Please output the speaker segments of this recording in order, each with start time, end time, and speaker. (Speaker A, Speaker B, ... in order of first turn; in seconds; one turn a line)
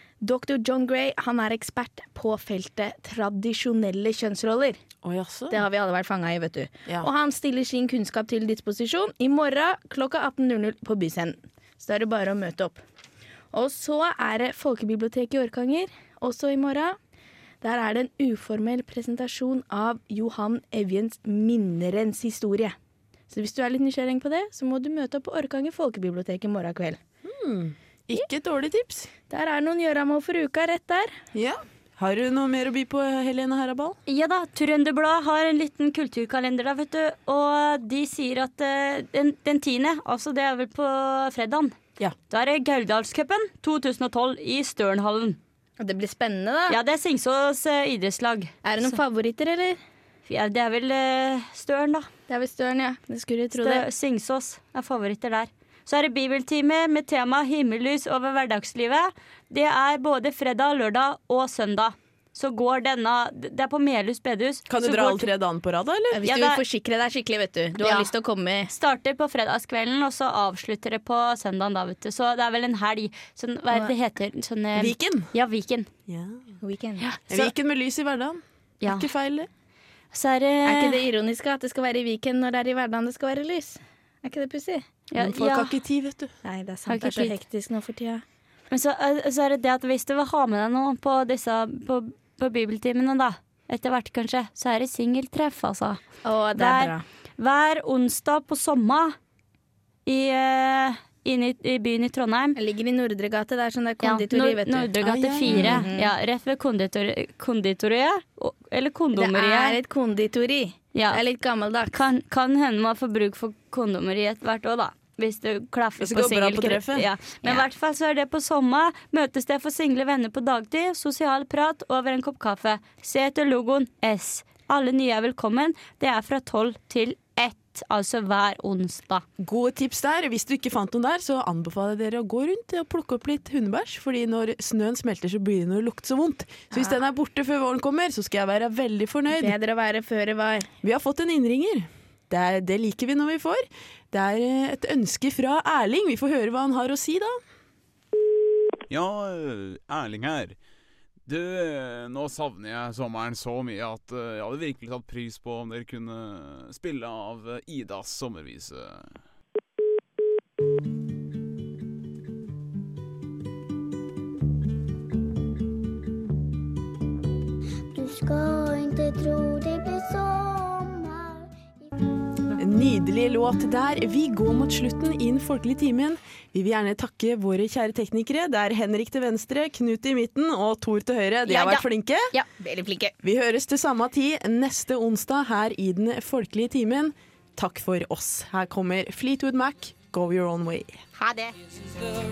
Speaker A: 0.2-4.8
Speaker B: 5.0-5.6
Speaker A: 5.5-12.8
Speaker A: 13.5-17.0
Speaker A: 17.6-22.8
Speaker A: 23.3-27.0
Speaker B: 27.2-29.1
Speaker A: 29.3-31.1
Speaker B: 31.3-34.0
Speaker C: 34.1-41.7
Speaker C: 42.3-45.4
Speaker A: 45.8-46.8
Speaker C: 46.7-48.9
Speaker A: 48.6-49.8
Speaker C: 50.3-52.1
Speaker A: 52.3-53.9
Speaker C: 53.5-65.3
Speaker B: 64.7-66.2
Speaker A: 66.1-68.7
Speaker C: 66.2-66.6
Speaker C: 67.8-68.1
Speaker C: 68.7-75.9
Speaker B: 74.8-75.3
Speaker B: 76.1-76.4
Speaker A: 76.6-77.1
Speaker B: 77.3-79.5
Speaker C: 78.8-79.1
Speaker C: 80.1-81.0
Speaker A: 80.6-84.8
Speaker C: 85.1-85.7
Speaker B: 85.2-86.3
Speaker A: 86.4-88.2
Speaker C: 86.9-87.3
Speaker C: 88.7-96.0
Speaker A: 96.2-97.0
Speaker C: 96.5-99.2
Speaker C: 100.0-102.6
Speaker A: 102.6-104.9
Speaker C: 104.0-109.8
Speaker B: 105.0-105.9
Speaker A: 105.5-106.1
Speaker A: 109.1-111.9
Speaker C: 110.9-111.2
Speaker C: 111.9-129.2
Speaker B: 116.0-117.1
Speaker B: 129.4-139.6
Speaker A: 139.3-140.7
Speaker B: 140.8-147.4
Speaker D: 148.9-150.6
Speaker D: 151.2-159.2
Speaker E: 167.9-171.5
Speaker B: 172.6-182.3
Speaker C: 181.5-181.8
Speaker A: 182.6-183.1
Speaker B: 183.2-191.0
Speaker C: 191.2-191.5